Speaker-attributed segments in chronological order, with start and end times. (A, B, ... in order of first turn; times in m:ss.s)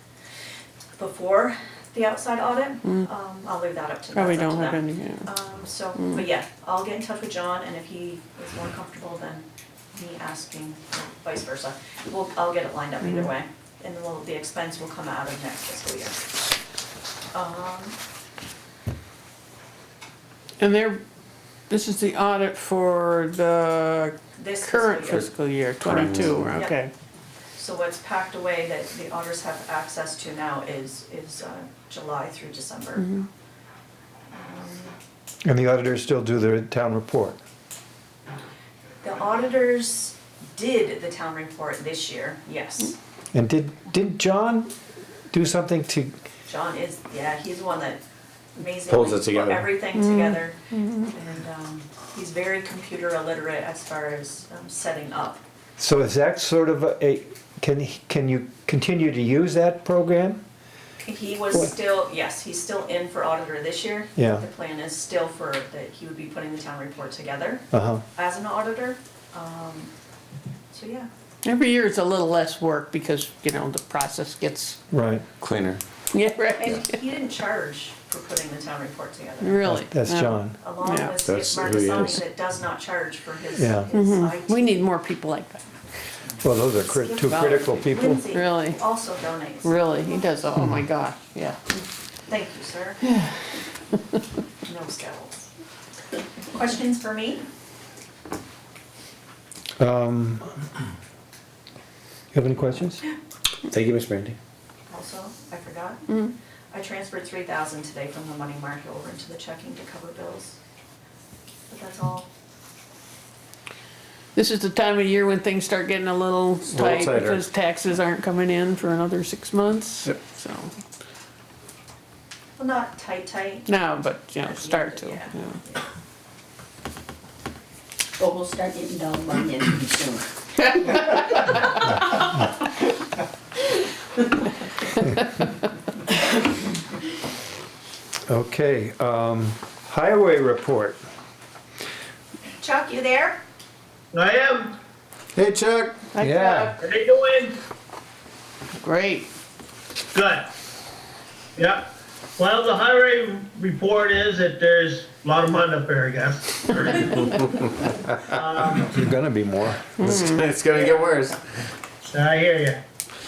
0:01.0-0:16.2 A
0:04.1-0:05.3 B
0:17.3-0:18.0 A
0:20.6-0:21.0 B
0:21.7-0:26.9 B
0:24.3-0:25.3 A
0:25.8-0:26.4 C
0:26.3-0:26.8 A
0:27.6-0:33.1 A
0:33.0-0:33.3 B
0:34.3-0:35.0 A
0:35.4-0:37.4 D
0:39.0-0:43.0 A
0:43.3-0:44.7 D
0:45.3-0:46.1 D
0:46.4-0:48.0 A
0:48.6-0:55.4 A
0:48.9-0:49.7 C
0:49.9-0:51.1 B
0:55.8-1:00.4 D
1:01.0-1:09.9 A
1:04.2-1:04.4 D
1:07.7-1:08.0 D
1:10.7-1:11.1 A
1:11.4-1:14.8 B
1:14.9-1:15.2 D
1:15.4-1:15.8 C
1:16.1-1:17.0 B
1:16.5-1:19.6 A
1:19.4-1:21.2 B
1:19.6-1:20.6 D
1:20.6-1:24.8 A
1:21.2-1:22.2 C
1:23.5-1:23.9 D
1:23.9-1:25.8 B
1:26.4-1:28.2 D
1:26.8-1:30.3 A
1:28.3-1:28.8 B
1:29.6-1:31.6 B
1:32.3-1:33.0 A
1:34.6-1:35.5 A
1:36.5-1:37.4 A
1:39.8-1:40.6 D
1:42.3-1:43.0 D
1:43.7-1:44.4 C
1:44.9-1:46.2 A
1:46.7-1:50.6 A
1:51.7-1:52.3 A
1:54.3-2:00.7 B
1:56.7-1:57.4 C
2:02.6-2:03.8 A
2:03.6-2:05.6 B
2:04.4-2:05.8 A
2:08.2-2:10.2 E
2:10.8-2:11.4 B
2:18.3-2:21.0 D
2:22.6-2:23.4 A
2:24.1-2:24.7 F
2:25.4-2:26.0 C
2:26.1-2:26.8 B
2:26.2-2:26.7 D
2:26.8-2:27.6 F
2:28.8-2:29.3 B
2:30.1-2:30.5 F
2:31.6-2:37.4 F
2:38.2-2:38.9 F
2:38.8-2:40.0 D
2:40.0-2:41.4 C
2:40.7-2:41.0 F
2:42.0-2:42.8 F